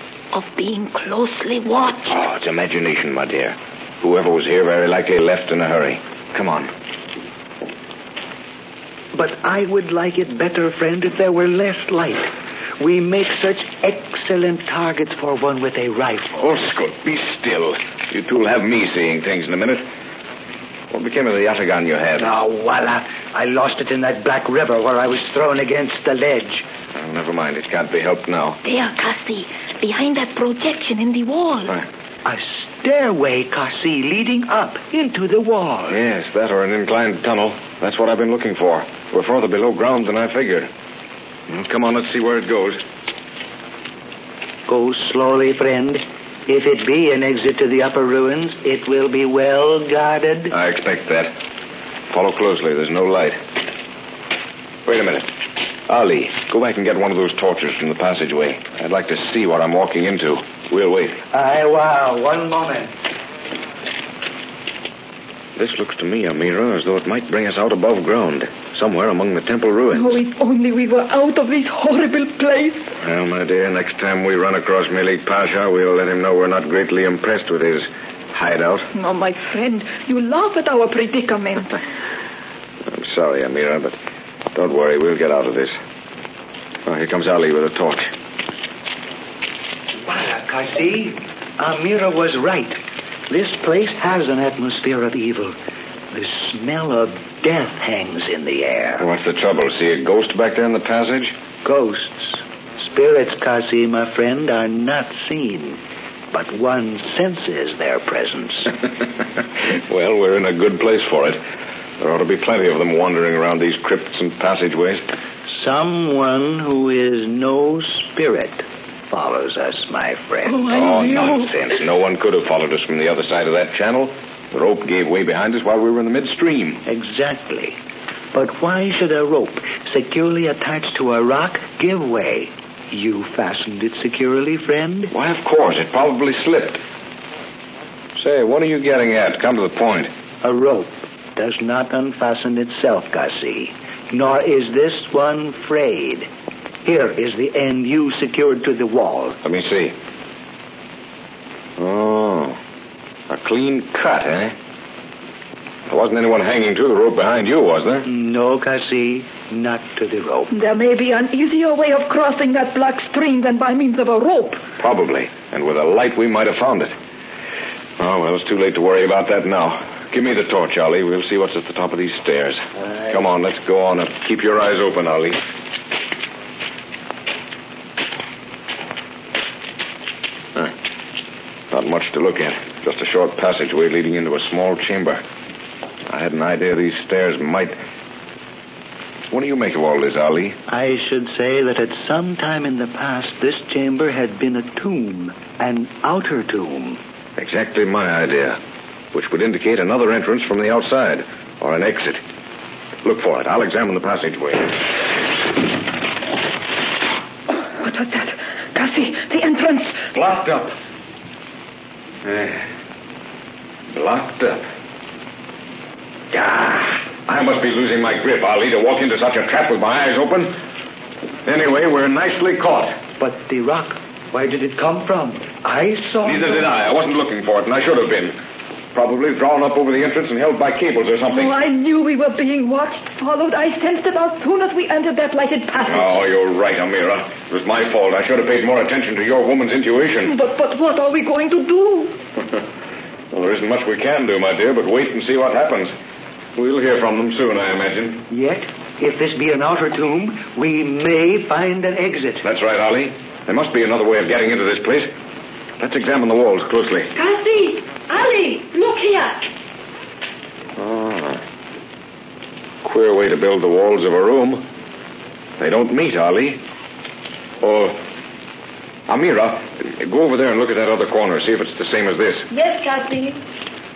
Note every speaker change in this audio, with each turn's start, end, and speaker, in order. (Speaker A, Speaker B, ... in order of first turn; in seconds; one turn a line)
Speaker A: 0.3-2.1
Speaker B: 2.1-6.7
Speaker C: 9.1-16.6
Speaker B: 16.4-19.9
Speaker B: 20.9-22.3
Speaker C: 22.2-26.6
Speaker B: 26.9-28.6
Speaker A: 28.6-31.8
Speaker C: 32.2-36.0
Speaker B: 35.9-40.7
Speaker B: 41.5-42.8
Speaker C: 44.7-50.5
Speaker B: 50.5-51.3
Speaker B: 52.1-53.4
Speaker B: 54.8-55.3
Speaker B: 55.9-61.2
Speaker C: 61.3-62.9
Speaker B: 65.5-70.2
Speaker A: 69.9-72.9
Speaker B: 73.0-78.9
Speaker A: 78.9-81.8
Speaker B: 82.8-84.0
Speaker B: 84.5-85.8
Speaker B: 86.8-88.1
Speaker C: 90.0-92.8
Speaker C: 93.3-95.5
Speaker C: 96.1-99.1
Speaker B: 99.0-101.3
Speaker C: 101.6-105.8
Speaker C: 106.3-108.7
Speaker B: 109.6-111.4
Speaker B: 112.0-115.0
Speaker C: 115.5-120.8
Speaker A: 120.5-121.5
Speaker B: 120.7-126.8
Speaker C: 126.8-127.8
Speaker C: 128.3-135.1
Speaker B: 135.1-136.8
Speaker B: 138.2-140.1
Speaker C: 140.4-146.3
Speaker C: 146.8-149.4
Speaker B: 149.4-149.9
Speaker B: 151.8-152.6
Speaker B: 153.3-154.5
Speaker B: 155.9-158.1
Speaker C: 158.0-160.5
Speaker A: 160.5-164.6
Speaker B: 164.8-166.9
Speaker B: 168.0-175.4
Speaker B: 181.7-185.2
Speaker B: 186.1-187.8
Speaker B: 189.3-190.6
Speaker C: 190.7-197.0
Speaker B: 197.4-198.6
Speaker B: 199.1-202.2
Speaker B: 203.0-204.8
Speaker A: 207.5-210.0
Speaker B: 210.1-210.7
Speaker B: 212.2-212.6
Speaker B: 213.9-214.7
Speaker B: 216.3-220.5
Speaker B: 221.4-222.9
Speaker C: 223.2-226.7
Speaker B: 226.2-228.3
Speaker B: 228.9-231.5
Speaker A: 231.3-236.2
Speaker B: 235.9-240.3
Speaker A: 240.2-242.1
Speaker B: 243.3-245.9
Speaker B: 246.6-248.2
Speaker C: 248.3-252.4
Speaker B: 252.4-255.1
Speaker B: 255.8-257.1
Speaker A: 257.1-259.5
Speaker B: 260.8-261.4
Speaker B: 262.8-264.6
Speaker B: 265.6-266.6
Speaker B: 267.6-268.0
Speaker B: 269.1-272.5
Speaker A: 272.5-273.4